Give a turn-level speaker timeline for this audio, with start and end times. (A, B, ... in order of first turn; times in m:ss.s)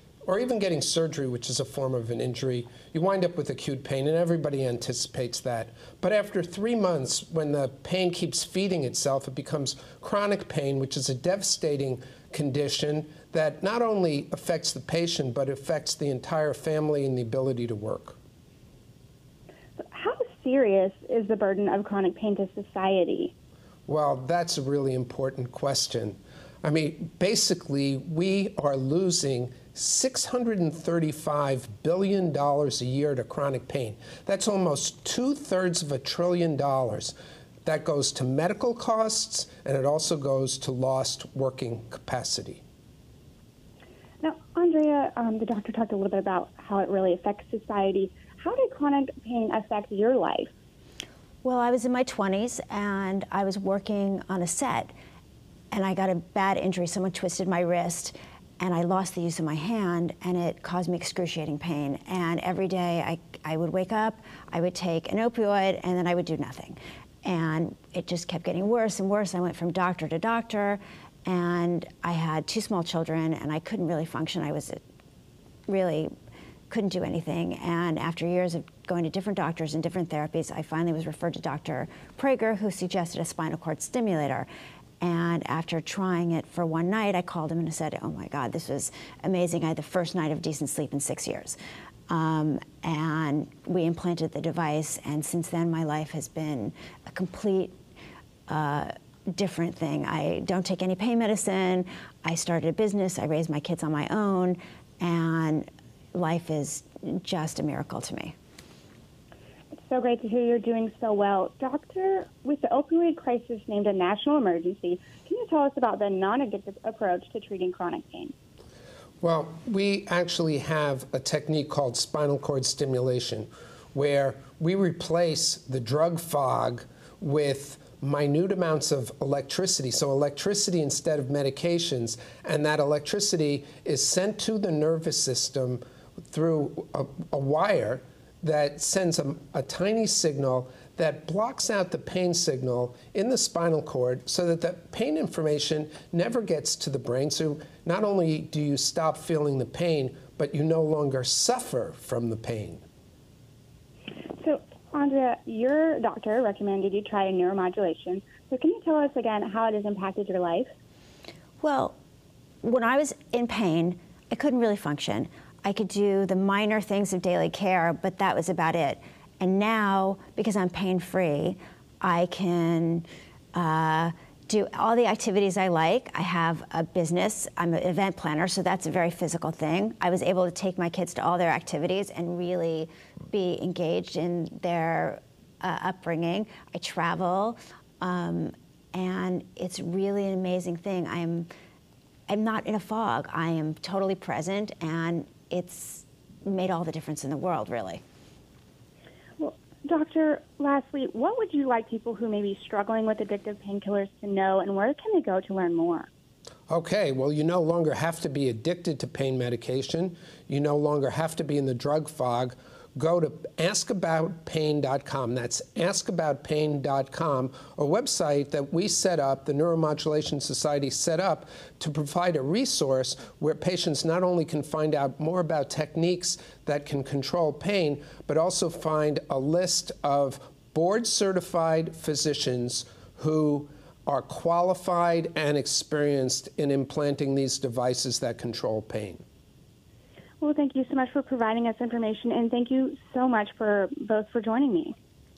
0:00.3-0:18.2 A
0:19.8-0:23.3 B
0:23.9-0:42.6 A
0:44.2-0:50.5 B
0:51.4-0:54.9 C
0:55.7-1:14.8 C
1:15.7-1:16.1 C
1:16.7-1:24.5 C
1:25.0-1:31.6 C
1:32.1-1:37.8 C
1:38.5-1:48.3 C
1:49.7-1:58.3 B
1:59.2-2:32.8 A
2:34.4-2:40.7 B
2:41.6-2:42.0 C
2:42.6-3:11.5 C
3:12.3-3:18.0 C
3:19.4-3:26.1 B
3:26.7-3:59.2 A
4:00.4-4:05.0 B